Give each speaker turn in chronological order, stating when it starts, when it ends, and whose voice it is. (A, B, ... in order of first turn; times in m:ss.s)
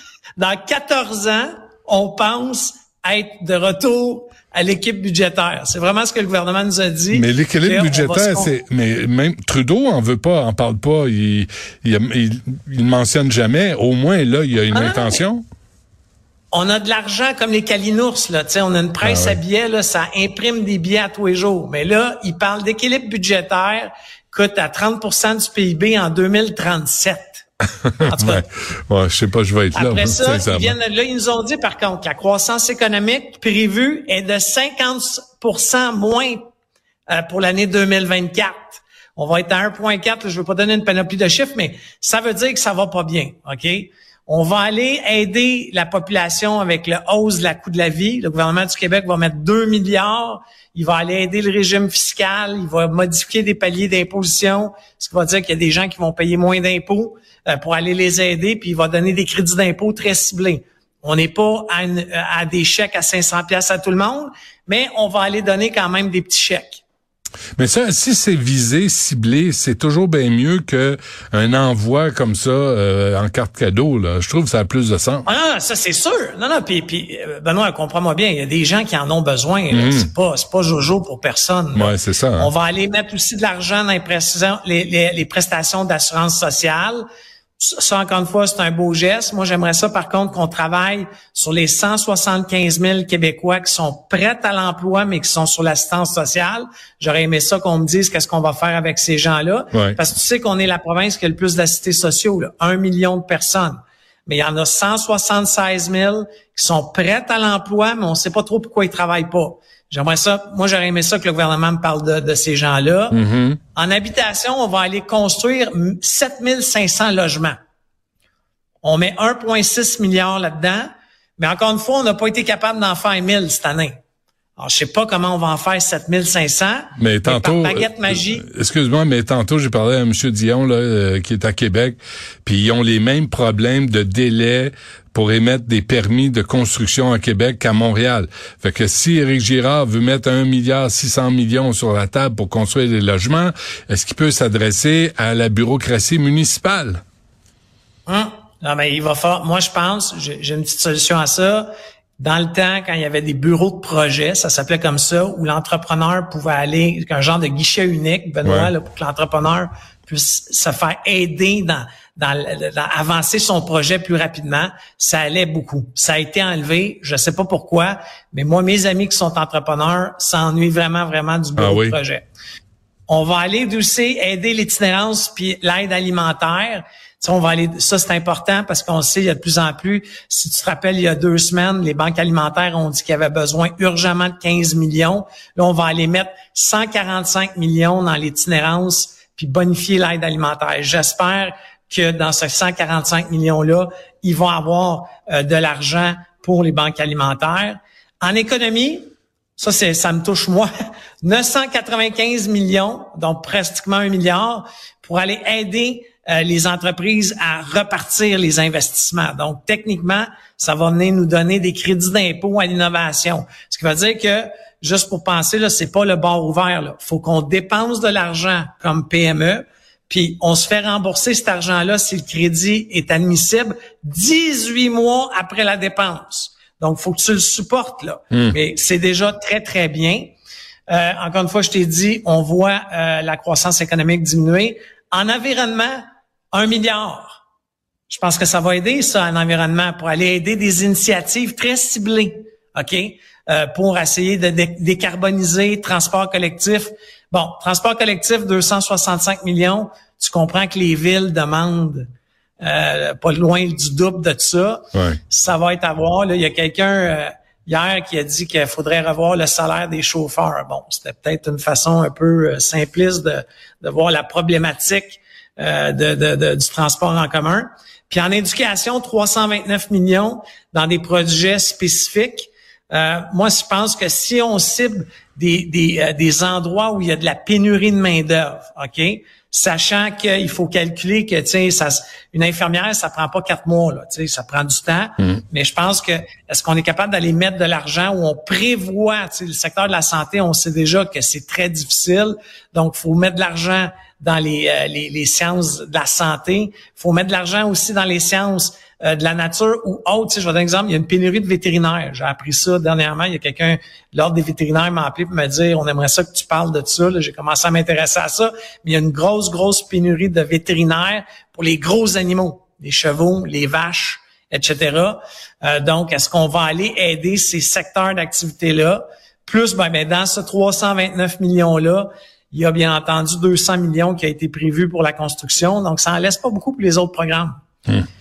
0:00.4-0:08.5 A
0:07.1-0:15.4 B
0:14.7-0:15.2 A
0:16.5-0:27.4 A
0:19.0-0:19.4 B
0:27.9-0:30.7 B
0:28.0-0:28.4 A
0:29.7-0:36.4 A
0:37.1-1:06.8 A
1:07.6-1:15.2 B
1:15.2-1:27.0 A
1:19.7-1:20.1 B
1:21.7-1:22.5 B
1:27.6-1:53.2 A
1:53.1-1:53.6 B
1:53.7-1:57.6 A
1:58.8-2:03.9 A
2:04.6-2:08.4 A
2:07.0-2:27.0 B
2:28.1-2:52.2 A
2:38.4-2:38.7 B
2:51.6-2:52.0 B
2:53.1-3:20.7 A
3:21.2-3:50.3 A
3:50.9-3:57.4 A
3:58.1-4:12.1 A
4:12.6-5:27.5 A
4:14.9-4:15.2 B